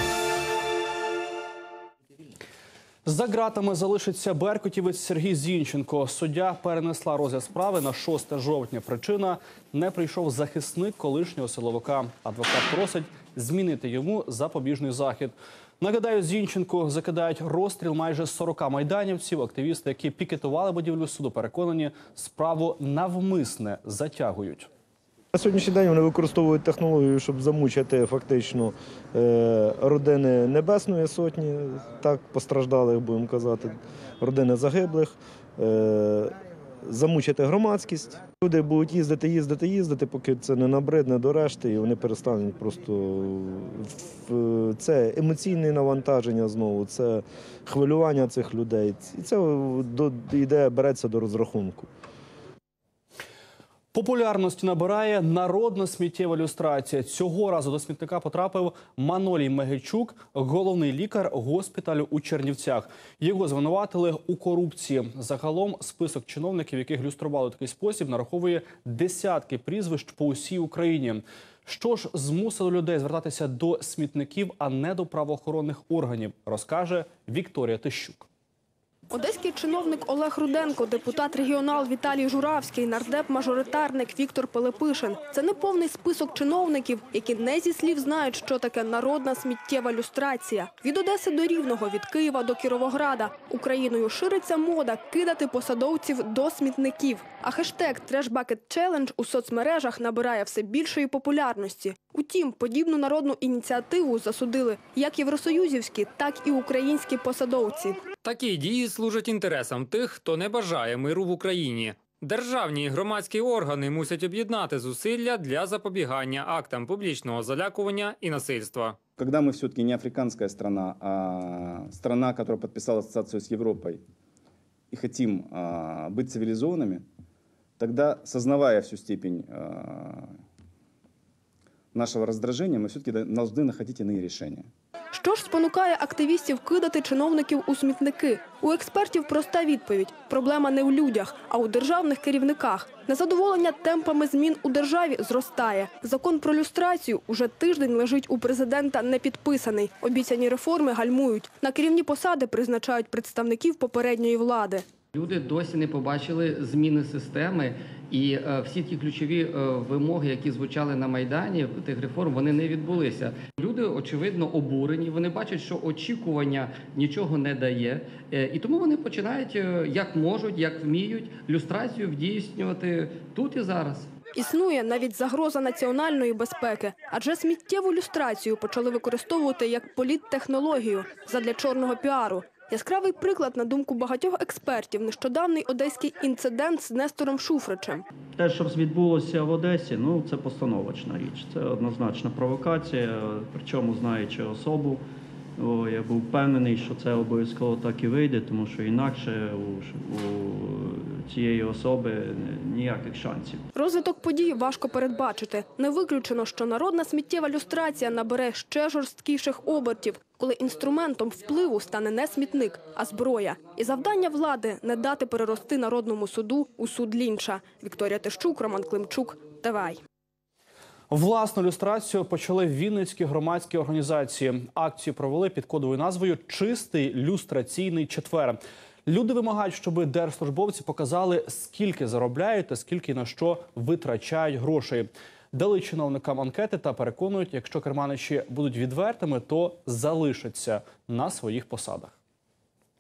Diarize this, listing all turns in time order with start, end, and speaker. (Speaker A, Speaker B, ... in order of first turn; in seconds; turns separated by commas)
Speaker A: 3.0-24.7, Speaker B: 25.3-51.9, Speaker A: 53.9-78.3, Speaker C: 79.1-108.0, Speaker D: 108.2-119.0, Speaker E: 119.2-124.0, Speaker E: 124.9-127.0, Speaker E: 127.8-130.2, Speaker E: 131.9-134.6, Speaker C: 135.1-154.8, Speaker F: 155.1-174.1, Speaker C: 174.3-188.0, Speaker G: 188.4-195.0, Speaker G: 195.6-203.7, Speaker C: 203.7-220.0, Speaker A: 221.1-242.2